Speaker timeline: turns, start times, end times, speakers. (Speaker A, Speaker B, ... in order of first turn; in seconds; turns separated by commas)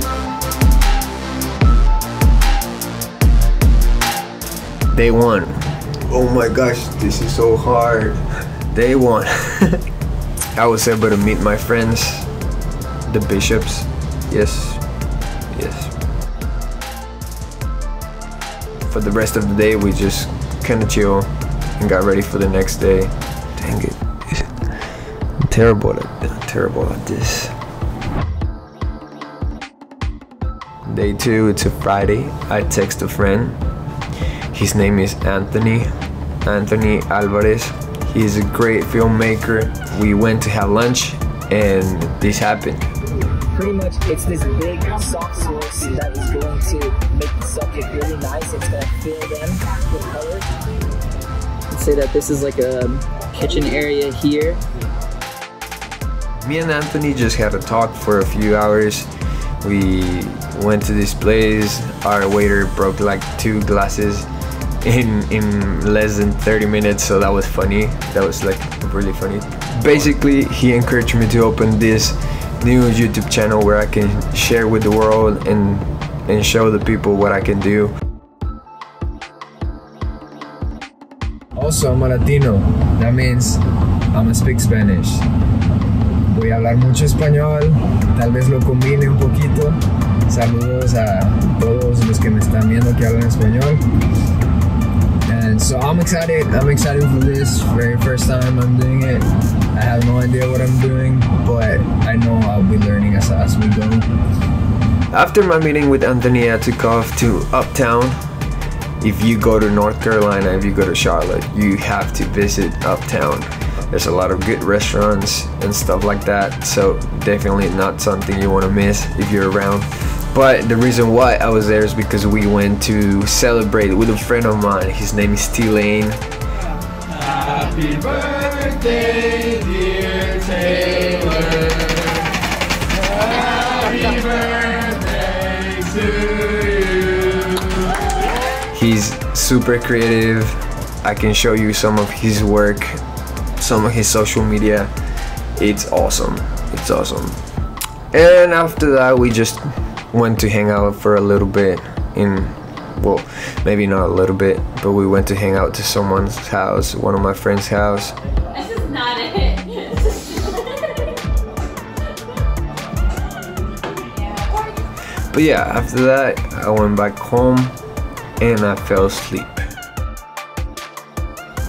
Speaker A: 4.9-9.8, Speaker A: 10.6-12.3, Speaker A: 13.1-14.8, Speaker A: 15.5-15.9, Speaker A: 18.9-24.7, Speaker A: 25.4-27.5, Speaker A: 30.9-33.6, Speaker A: 34.5-35.9, Speaker A: 36.5-42.9, Speaker B: 43.5-50.5, Speaker B: 51.7-54.6, Speaker A: 56.4-59.1, Speaker A: 59.6-64.3, Speaker A: 64.8-78.0, Speaker A: 81.6-83.6, Speaker A: 84.1-85.3, Speaker A: 86.3-93.8, Speaker A: 95.3-104.0, Speaker A: 105.1-108.2, Speaker A: 109.0-126.2, Speaker C: 127.5-128.3, Speaker A: 127.6-132.1, Speaker C: 128.8-131.2, Speaker C: 133.7-135.0, Speaker A: 133.8-137.0, Speaker A: 138.7-143.0, Speaker A: 143.6-144.9, Speaker A: 145.6-147.4, Speaker A: 148.1-158.2, Speaker D: 158.6-160.7, Speaker A: 165.3-167.8, Speaker A: 168.4-169.7